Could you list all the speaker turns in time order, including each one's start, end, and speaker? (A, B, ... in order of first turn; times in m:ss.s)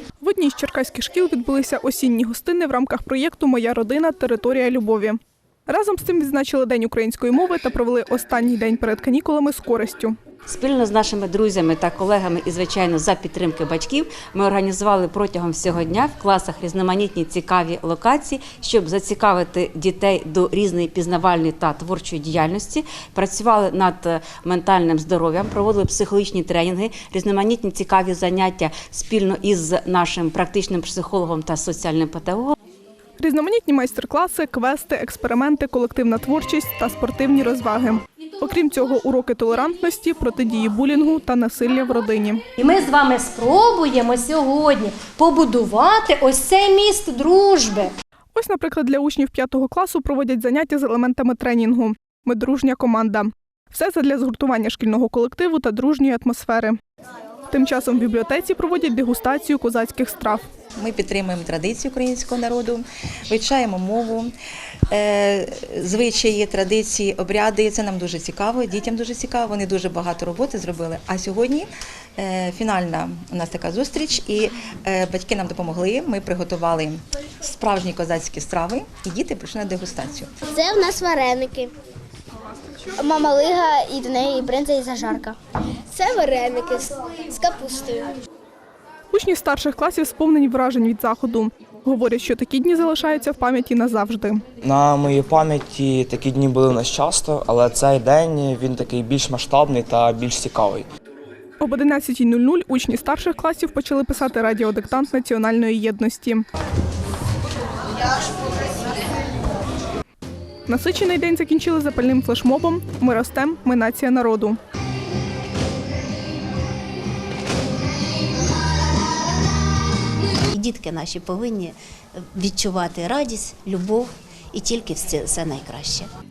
0:00.2-0:10.1 A
0:10.4-0:32.6 B
0:33.2-0:42.4 A
0:42.6-0:47.9 C
0:48.3-0:56.8 A
0:57.5-1:00.4 A
1:00.8-1:04.3 D
1:04.9-1:20.3 D
1:20.5-1:21.7 E
1:23.0-1:25.4 E
1:25.9-1:28.2 E
1:29.1-1:34.4 A
1:34.6-1:40.8 F
1:41.6-1:46.4 A
1:50.7-1:54.6 A
2:00.5-2:06.1 G